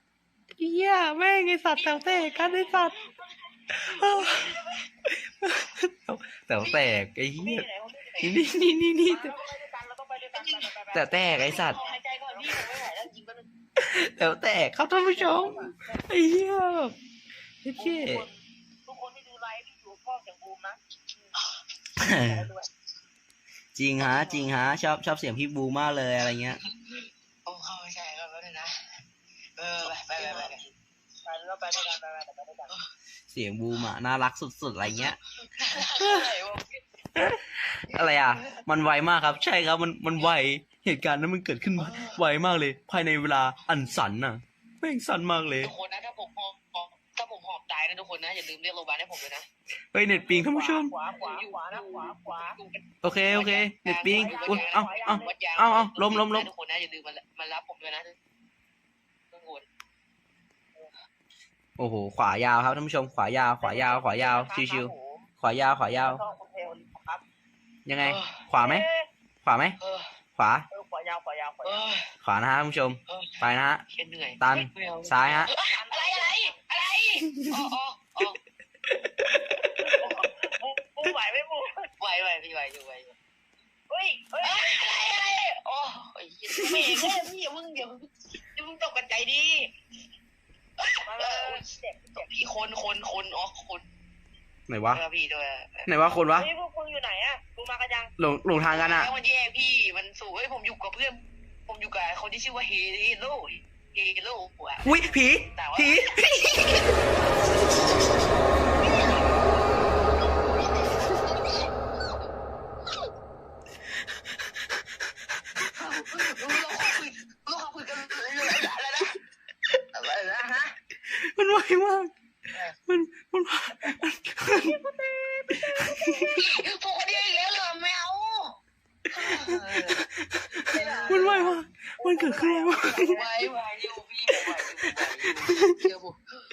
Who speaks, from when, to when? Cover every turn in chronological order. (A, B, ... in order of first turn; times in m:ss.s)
0:00.6-0:02.9 A
0:01.8-0:04.6 B
0:03.8-0:04.5 A
0:05.1-0:07.6 A
0:06.6-0:08.4 C
0:08.2-0:09.3 A
0:09.0-0:13.1 C
0:10.3-0:13.5 B
0:10.9-0:11.8 A
0:13.8-0:16.9 A
0:14.9-0:16.0 C
0:17.6-0:18.2 A
0:17.8-0:21.4 C
0:22.0-0:22.5 A
0:22.0-0:22.7 C
0:23.7-0:26.6 A
0:24.0-0:24.5 B
0:26.7-0:29.0 B
0:29.6-0:30.7 B
0:30.1-0:30.6 C
0:31.2-0:32.7 C
0:33.3-0:35.2 A
0:35.0-0:36.8 B
0:37.1-0:45.7 A
0:38.3-0:38.6 B
0:41.8-0:42.2 B
0:45.6-0:49.4 B
0:49.9-0:50.9 A
0:50.2-0:52.6 C
0:51.1-0:58.1 B
0:53.0-0:56.5 A
0:54.1-0:55.4 C
0:59.3-0:59.6 B
1:01.8-1:06.2 A
1:03.6-1:05.3 C
1:05.9-1:07.2 C
1:07.8-1:08.8 A
1:08.0-1:08.5 B
1:08.6-1:09.1 C
1:09.4-1:09.8 A
1:09.8-1:10.1 B
1:10.4-1:10.6 A
1:10.7-1:11.9 C
1:11.6-1:12.1 B
1:12.2-1:13.8 A
1:13.1-1:18.4 B
1:14.4-1:15.5 A
1:15.7-1:16.6 C
1:19.6-1:21.9 C
1:22.0-1:23.2 B
1:23.9-1:24.7 C
1:24.4-1:29.7 B
1:26.6-1:27.4 C
1:30.8-1:31.6 B
1:31.0-1:32.3 C
1:32.2-1:33.8 B
1:34.7-1:35.0 A
1:34.9-1:35.9 B
1:35.8-1:36.5 A
1:36.3-1:38.1 C
1:38.2-1:39.1 A
1:38.7-1:44.8 B
1:44.8-1:46.9 A
1:45.5-1:46.9 B
1:48.8-1:49.2 B
1:50.8-1:51.5 B
1:55.6-2:00.7 B
2:01.0-2:02.1 A
2:02.9-2:04.8 A
2:04.5-2:06.4 C
2:05.5-2:06.3 A
2:06.2-2:08.6 B
2:09.1-2:10.0 B
2:09.3-2:13.2 A
2:10.6-2:13.5 C
2:10.6-2:11.6 B
2:12.9-2:16.2 B
2:14.3-2:15.8 A